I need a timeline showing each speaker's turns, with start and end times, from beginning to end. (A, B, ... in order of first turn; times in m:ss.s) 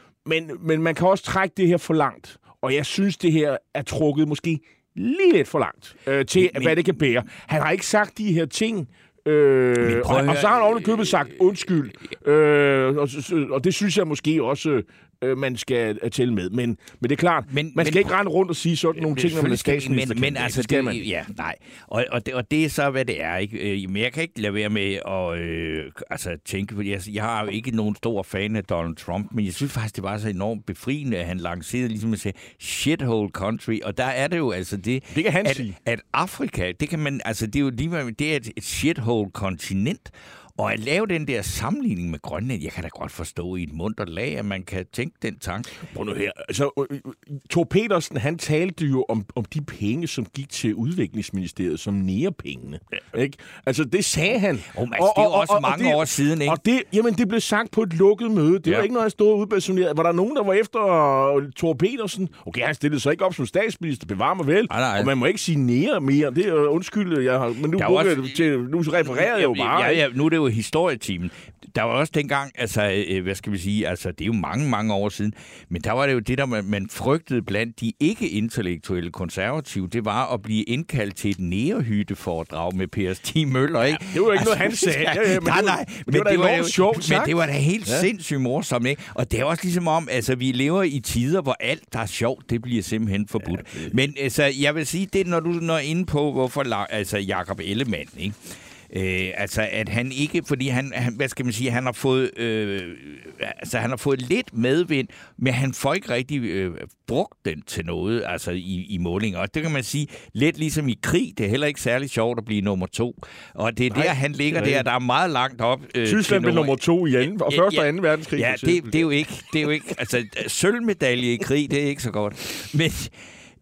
0:00.3-0:21.0 A
0:06.4-0:06.8 B
0:09.8-0:11.3 B
0:17.5-0:18.1 B
0:19.0-0:45.7 B
0:35.1-0:35.8 A
0:45.8-1:10.0 A
0:54.7-0:56.6 B
1:04.7-1:05.1 B
1:07.8-1:08.4 B
1:09.0-1:38.4 B
1:23.9-1:28.1 A
1:38.9-1:56.8 B
1:53.9-1:54.8 A
1:56.0-1:59.1 A
1:57.5-2:03.2 B